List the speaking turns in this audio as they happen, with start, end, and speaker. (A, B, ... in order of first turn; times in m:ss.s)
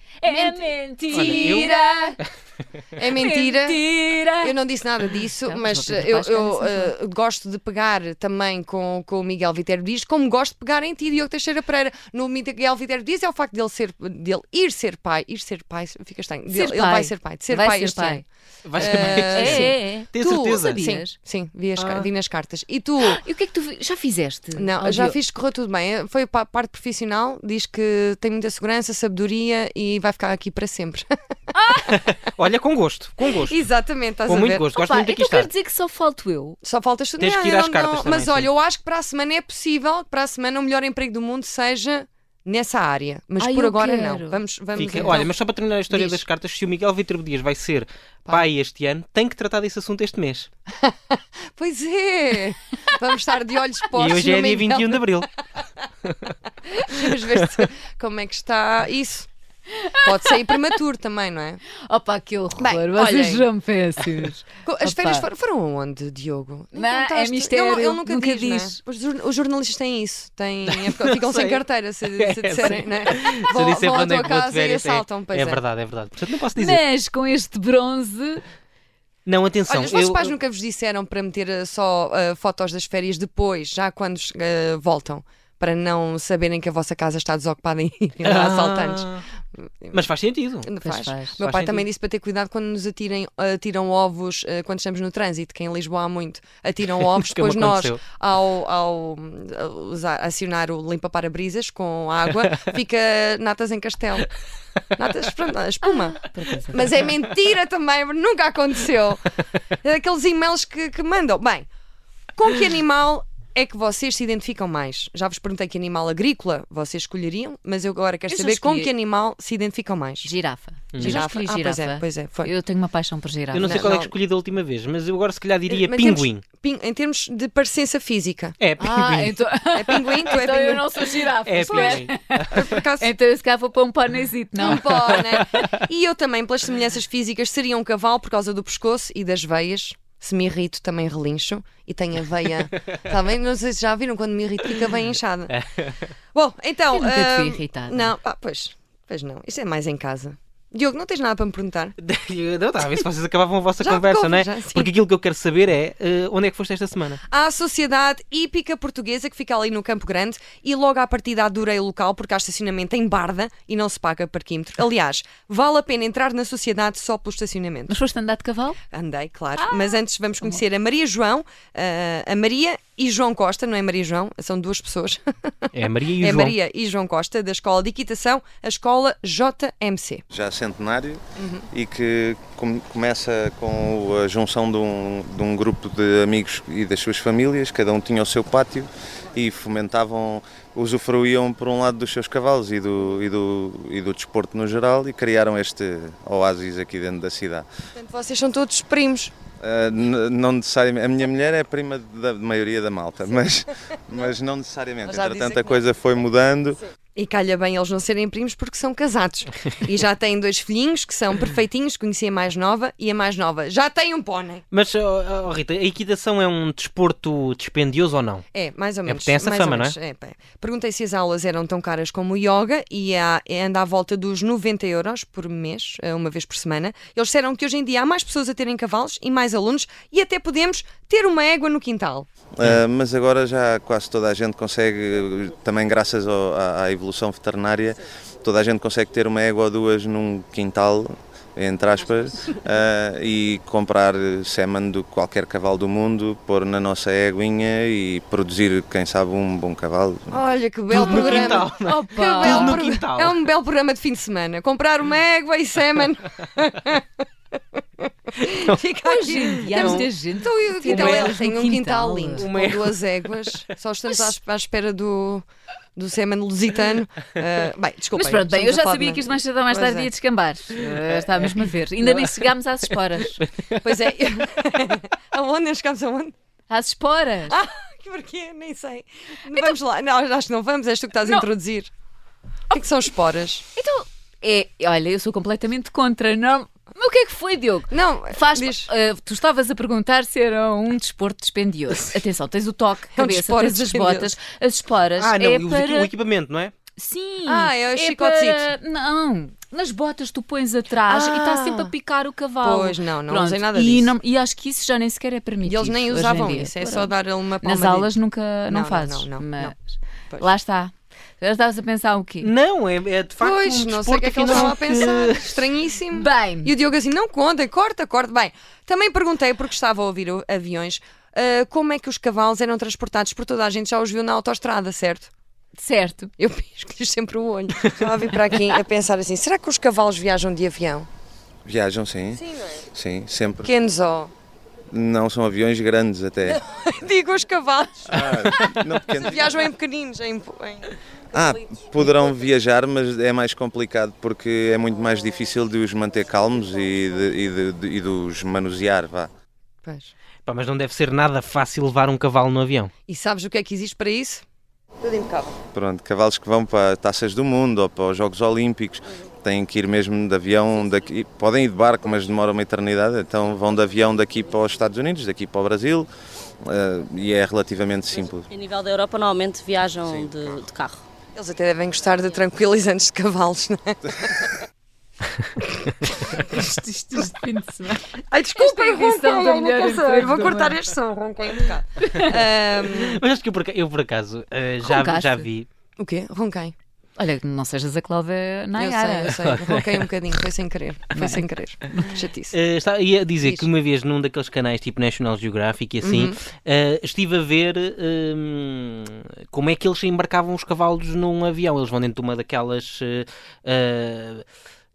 0:00.2-0:02.2 A
0:00.2-0:01.8 B
0:01.1-0:02.2 C
0:03.0-0:03.8 B
0:03.0-0:04.6 A
0:04.4-0:18.2 B
0:05.4-0:06.9 A
0:16.5-0:18.2 A
0:18.6-0:20.8 C
0:18.8-0:23.2 B
0:18.8-0:21.1 A
0:21.8-0:22.1 C
0:23.0-0:25.2 A
0:24.6-0:31.1 B
0:31.5-0:32.0 A
0:31.9-0:33.6 C
0:33.4-0:34.6 B
0:34.3-0:35.5 C
0:34.7-0:36.6 A
0:36.6-0:45.3 B
0:37.2-0:38.5 C
0:43.4-0:45.2 A
0:44.8-0:50.5 C
0:50.8-0:55.2 B
0:53.9-0:55.3 C
0:56.0-0:56.4 C
0:56.7-0:59.3 B
0:57.2-0:57.6 C
0:59.8-1:00.3 A
1:00.0-1:01.6 B
1:01.8-1:05.3 A
1:02.6-1:03.5 B
1:04.6-1:15.6 B
1:06.7-1:08.8 A
1:10.6-1:16.8 C
1:16.6-1:18.4 A
1:19.2-1:20.3 C
1:19.6-1:30.0 B
1:28.2-1:29.2 C
1:29.9-1:30.7 C
1:30.6-1:44.3 B
1:30.8-1:31.4 A
1:31.4-1:31.8 C
1:36.8-1:38.0 C
1:44.9-1:49.2 B
1:46.2-1:47.1 A
1:49.8-1:51.7 B
1:52.3-2:00.3 B
1:58.3-1:58.9 A
2:00.2-2:03.8 A
2:00.9-2:01.2 C
2:01.0-2:02.5 B
2:03.5-2:06.4 C
2:03.6-2:04.1 B
2:05.7-2:08.6 B
2:08.6-2:09.3 C
2:08.8-2:15.2 A
2:09.7-2:13.1 B
2:11.4-2:12.4 C
2:14.6-2:25.5 B
2:25.5-2:26.1 C
2:26.3-2:31.9 B
2:26.9-2:28.1 A
2:32.0-2:37.2 C
2:33.8-2:34.9 B
2:37.3-2:47.9 B
2:47.9-2:48.8 A
2:48.9-3:00.2 B
2:49.6-2:50.6 A
2:55.7-2:56.6 C
3:00.3-3:17.7 D
3:01.4-3:01.7 B
3:17.9-3:19.3 B
3:19.6-3:26.8 D
3:25.0-3:25.8 B
3:27.1-3:34.6 B
3:34.7-3:38.4 C
3:38.5-3:52.3 B
3:39.0-3:40.0 C
3:52.5-4:10.4 D
4:10.3-4:17.1 B
4:10.9-4:13.4 C
4:11.1-4:12.8 A
4:17.8-4:25.4 B
4:18.4-4:18.8 C
4:19.0-4:22.4 A
4:19.6-4:20.0 C
4:20.8-4:21.4 C
4:22.3-4:23.6 C
4:26.0-4:30.1 B
4:28.1-4:33.4 A
4:31.1-4:34.1 C
4:33.8-4:36.3 B
4:36.7-4:37.6 A
4:37.5-4:41.9 B
4:42.7-4:43.6 B
4:43.7-4:56.1 A
4:47.9-4:48.9 B
4:53.1-4:54.4 B
4:55.2-4:56.7 C
4:57.0-5:12.5 A
4:57.4-4:58.6 B
5:01.1-5:01.9 B
5:02.6-5:04.1 B
5:05.6-5:08.1 B
5:08.7-5:09.7 B
5:12.4-5:15.6 C
5:13.4-5:25.3 B
5:16.1-5:16.7 A
5:25.8-5:26.3 A
5:26.4-5:31.1 B
5:31.6-5:32.4 D
5:32.3-5:32.8 B
5:32.9-5:33.7 D
5:33.6-5:34.3 B
5:34.9-5:36.6 D
5:36.5-5:41.0 B
5:38.1-5:39.7 D
5:41.3-5:49.3 D
5:49.8-5:50.1 B
5:50.4-5:52.9 C
5:53.1-5:54.4 B
5:55.0-5:55.6 B
5:55.7-6:06.1 D
6:06.6-6:08.4 D
6:08.5-6:11.0 E
6:11.3-6:14.5 B
6:16.4-6:20.8 A
6:18.3-6:23.2 B
6:22.0-6:22.3 A
6:22.8-6:25.7 C
6:24.8-6:25.5 A
6:26.0-6:26.7 B
6:27.2-6:29.4 A
6:28.8-6:32.5 B
6:29.3-6:30.1 C
6:31.1-6:32.1 A
6:32.5-6:44.4 C
6:33.4-6:33.7 B
6:36.0-6:36.4 B